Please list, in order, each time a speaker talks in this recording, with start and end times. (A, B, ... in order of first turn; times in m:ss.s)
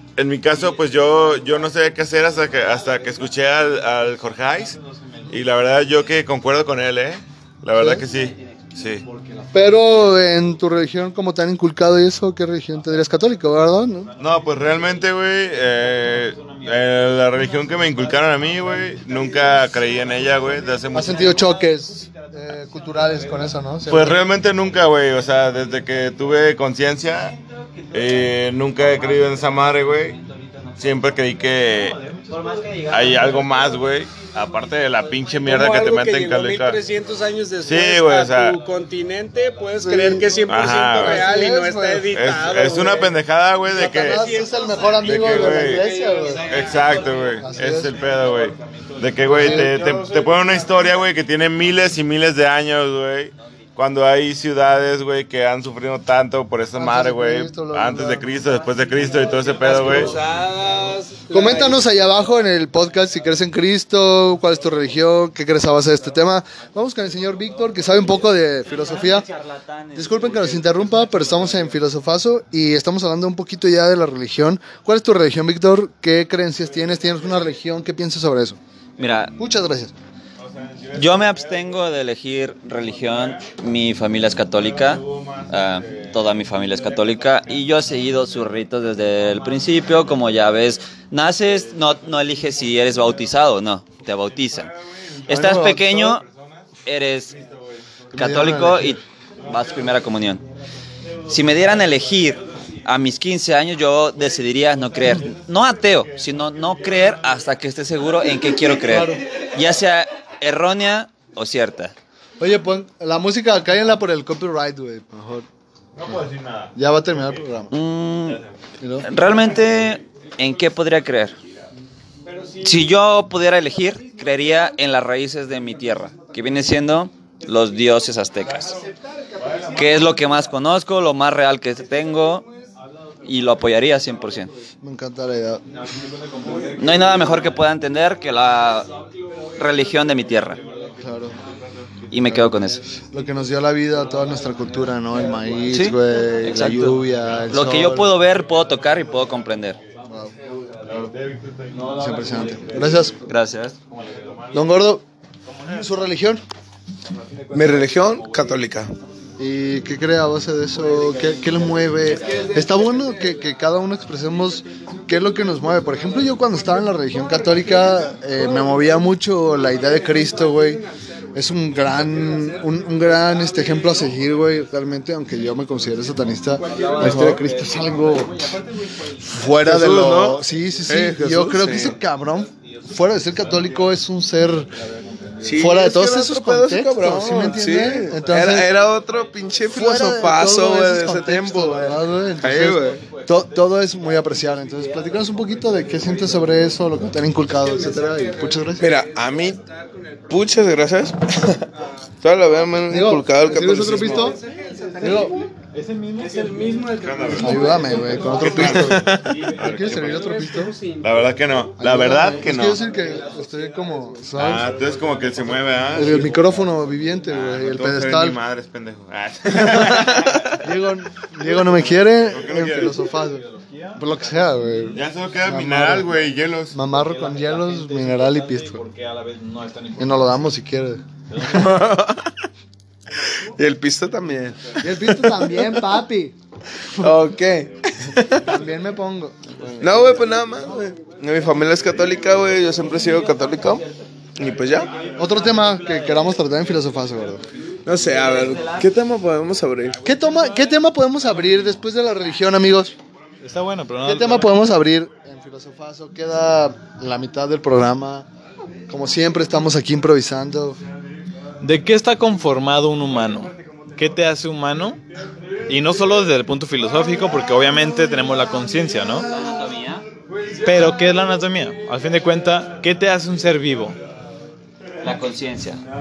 0:00.2-0:04.8 A
0:00.7-0:01.6 B
0:02.8-0:03.1 B
0:04.1-0:05.5 B
0:05.3-0:09.0 A
0:07.8-0:08.1 C
0:09.0-0:10.5 B
0:09.5-0:14.1 C
0:13.0-0:13.4 B
0:14.0-0:25.3 B
0:14.2-0:21.5 A
0:20.9-0:24.2 C
0:23.9-0:27.3 A
0:27.1-0:36.8 B
0:27.9-0:30.2 A
0:30.8-0:32.0 A
0:32.3-0:33.4 D
0:32.9-0:36.8 A
0:35.4-0:47.0 E
0:37.6-0:38.6 A
0:38.4-0:38.8 B
0:39.3-0:40.9 B
0:39.8-0:40.2 C
0:40.5-0:41.3 A
0:40.9-0:42.2 C
0:42.1-0:44.2 A
0:43.7-0:46.5 C
0:44.4-0:45.0 B
0:45.0-0:45.9 A
0:46.2-0:51.8 B
0:46.4-1:00.2 A
0:47.3-0:48.0 C
0:49.3-0:49.8 C
0:49.9-0:50.3 E
0:56.8-0:58.3 C
0:58.7-1:00.3 B
0:59.6-1:01.9 E
1:01.3-1:09.3 C
1:08.4-1:10.8 D
1:10.0-1:18.6 C
1:16.7-1:17.4 A
1:19.0-1:19.4 D
1:19.4-1:19.9 C
1:20.4-1:21.9 A
1:20.9-1:34.7 D
1:22.7-1:28.5 A
1:29.1-1:30.7 A
1:31.4-1:33.2 A
1:34.2-1:36.7 A
1:35.3-1:36.2 D
1:35.3-1:36.0 C
1:36.8-1:37.4 D
1:37.3-1:38.5 A
1:38.1-1:39.0 C
1:38.1-1:40.4 D
1:39.4-1:39.9 A
1:41.3-1:51.9 D
1:45.2-1:47.5 A
1:48.7-1:49.3 C
1:52.4-1:55.5 C
1:56.0-1:57.4 A
1:56.8-1:57.7 C
1:57.7-1:58.4 D
1:58.3-1:58.6 A
1:58.8-1:59.1 C
1:59.0-2:01.4 D
1:59.1-2:00.0 A
2:02.2-2:03.0 E
2:02.6-2:08.8 D
2:03.8-2:04.8 E
2:06.0-2:06.4 E
2:07.7-2:10.5 E
2:09.7-2:12.4 D
2:11.7-2:12.7 E
2:12.8-2:14.6 B
2:13.2-2:14.5 D
2:14.8-2:15.6 C
2:15.7-2:17.6 B
2:16.4-2:17.4 E
2:16.8-2:18.9 D
2:18.8-2:23.1 B
2:19.2-2:19.5 E
2:19.6-2:20.6 D
2:21.0-2:21.4 C
2:22.1-2:22.8 D
2:23.1-2:28.2 C
2:24.0-2:27.9 B
2:25.7-2:29.8 D
2:28.4-2:31.1 B
2:30.1-2:30.3 C
2:30.8-2:33.3 A
2:31.7-2:33.2 B
2:32.0-2:33.2 C
2:33.2-2:33.8 D
2:33.9-2:34.7 A
2:34.5-2:35.0 C
2:35.5-2:35.8 A
2:35.6-2:36.4 C
2:37.3-2:38.6 B
2:37.5-2:39.0 F
2:39.4-2:58.4 C
2:40.9-2:42.9 B
2:40.9-2:41.4 E
2:42.0-2:43.8 E
2:44.5-2:54.3 E
2:56.5-2:57.3 E
2:56.6-2:59.6 B
2:57.1-2:57.4 F
2:59.3-3:04.7 C
2:59.6-3:02.0 F
3:00.5-3:01.2 B
3:02.4-3:04.0 B
3:04.7-3:05.8 B
3:05.4-3:13.0 F
3:05.5-3:08.7 C
3:07.4-3:11.2 B
3:09.7-3:18.9 C
3:12.5-3:17.4 B
3:17.4-3:20.9 E
3:18.8-3:19.6 F
3:20.3-3:21.7 F
3:21.7-3:22.9 E
3:22.2-3:24.3 F
3:22.9-3:24.4 C
3:23.5-3:25.6 E
3:25.0-3:30.2 B
3:25.0-3:25.4 C
3:26.2-3:28.8 E
3:27.0-3:30.5 A
3:27.4-3:30.8 C
3:28.8-3:29.4 F
3:30.0-3:31.4 E
3:31.0-3:32.9 A
3:31.8-3:34.8 C
3:32.2-3:37.2 B
3:32.8-3:34.2 E
3:34.4-3:36.6 A
3:35.9-3:38.4 C
3:37.2-3:40.7 A
3:39.5-3:40.0 C
3:40.6-3:43.4 C
3:41.4-3:43.1 A
3:42.5-3:45.0 B
3:44.0-3:46.1 C
3:44.9-3:46.8 A
3:46.7-3:48.8 C
3:46.9-3:50.4 B
3:50.0-3:51.0 C
3:51.3-3:51.9 B
3:51.5-3:52.3 F
3:53.4-3:55.9 F
3:54.8-3:56.4 C
3:57.0-3:58.5 F
3:58.4-4:00.1 C
3:59.8-4:04.9 F
4:03.3-4:03.8 D
4:04.5-4:05.8 A
4:05.1-4:06.0 D
4:05.2-4:07.5 C
4:05.2-4:06.6 B
4:07.8-4:10.1 F
4:08.0-4:08.9 D
4:10.0-4:13.0 C
4:10.1-4:10.5 B
4:13.4-4:14.6 B
4:14.0-4:18.3 C
4:18.9-4:20.8 C
4:21.6-4:25.0 B
4:23.2-4:24.0 E
4:25.7-4:29.3 B
4:29.2-4:30.1 D
4:30.6-4:34.0 B
4:35.0-4:35.8 D